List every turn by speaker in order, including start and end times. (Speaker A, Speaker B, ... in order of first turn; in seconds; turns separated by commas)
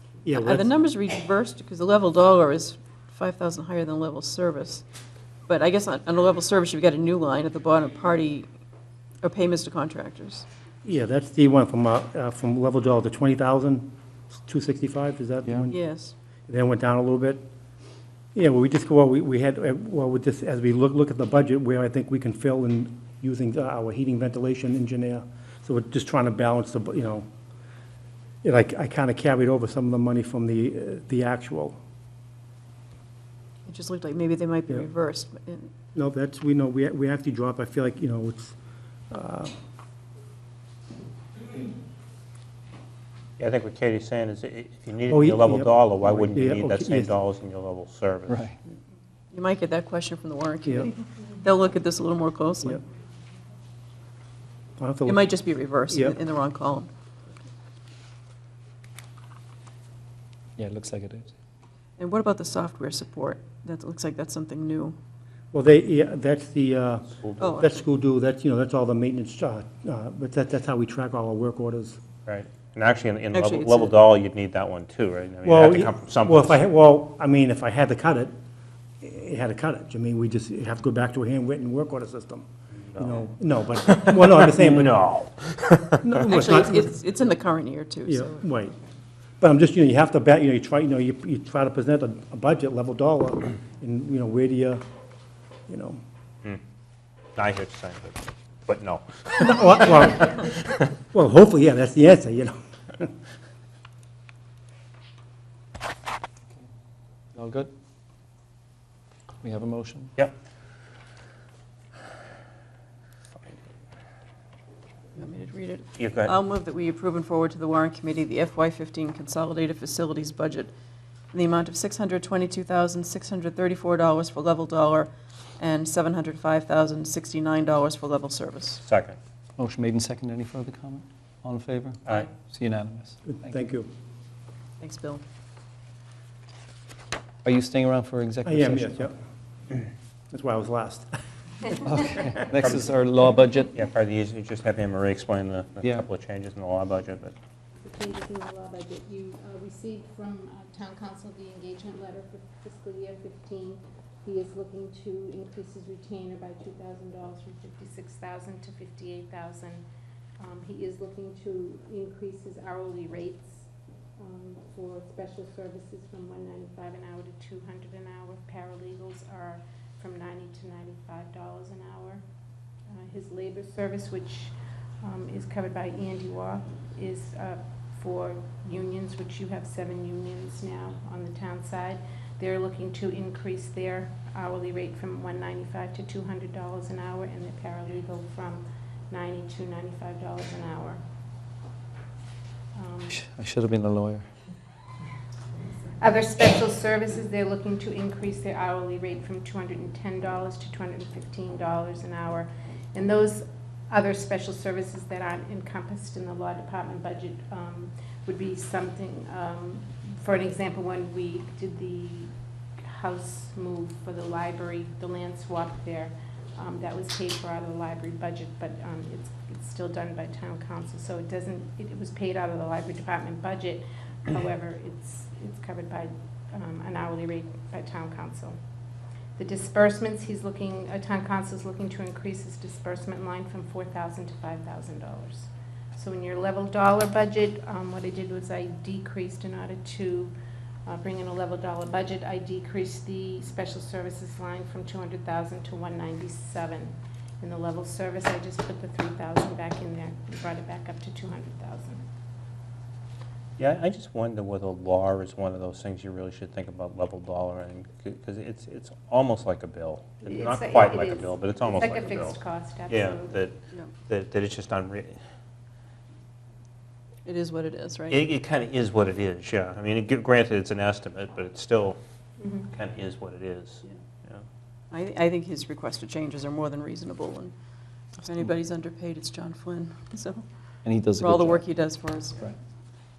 Speaker A: 0.2-0.7, Speaker B: 0.4-4.8, Speaker B: 5.5-8.5, Speaker B: 9.2-10.4, Speaker A: 10.8-15.7, Speaker B: 15.7-16.1, Speaker A: 16.5-17.4, Speaker A: 18.3-27.2, Speaker A: 28.4-31.8, Speaker B: 33.7-35.7, Speaker A: 35.9-38.5, Speaker A: 39.1-39.5, Speaker C: 43.4-48.4, Speaker A: 45.1-47.1, Speaker D: 48.3-48.5, Speaker B: 49.3-52.8, Speaker A: 54.8-55.3, Speaker B: 55.0-56.9, Speaker A: 55.9-56.2, Speaker D: 60.6-61.3, Speaker B: 62.0-65.0, Speaker A: 65.5-72.0, Speaker C: 67.2-67.6, Speaker B: 67.4-67.8, Speaker C: 72.2-76.7, Speaker B: 73.3-73.9, Speaker A: 75.4-78.3, Speaker A: 79.0-82.5, Speaker C: 82.9-83.2, Speaker A: 83.0-84.9, Speaker C: 83.8-86.1, Speaker A: 86.0-87.0, Speaker B: 86.2-88.4, Speaker A: 88.1-88.8, Speaker A: 89.4-94.8, Speaker A: 95.7-96.0, Speaker C: 97.3-100.7, Speaker A: 99.4-100.3, Speaker A: 101.1-103.1, Speaker D: 107.3-107.7, Speaker D: 109.4-110.1, Speaker B: 115.2-120.7, Speaker C: 116.0-116.3, Speaker B: 121.3-128.8, Speaker C: 128.8-129.2, Speaker D: 129.6-133.6, Speaker A: 133.3-133.9, Speaker B: 134.8-135.2, Speaker D: 137.4-139.1, Speaker A: 138.4-139.1, Speaker A: 140.3-141.1, Speaker D: 141.8-143.8, Speaker C: 142.6-142.8, Speaker C: 143.7-147.3, Speaker D: 145.8-146.1, Speaker E: 147.8-159.8, Speaker E: 160.4-172.2, Speaker E: 172.9-191.0, Speaker E: 192.7-193.1, Speaker D: 193.1-194.3, Speaker E: 196.0-228.5, Speaker E: 229.4-240.3, Speaker E: 240.8-252.0, Speaker C: 253.6-263.6, Speaker E: 260.2-263.4, Speaker C: 264.1-265.2, Speaker B: 267.2-268.3, Speaker C: 268.1-272.0, Speaker E: 272.4-272.6, Speaker C: 272.6-274.4, Speaker B: 274.9-277.5, Speaker B: 278.2-280.4, Speaker D: 280.8-281.6, Speaker B: 281.2-282.4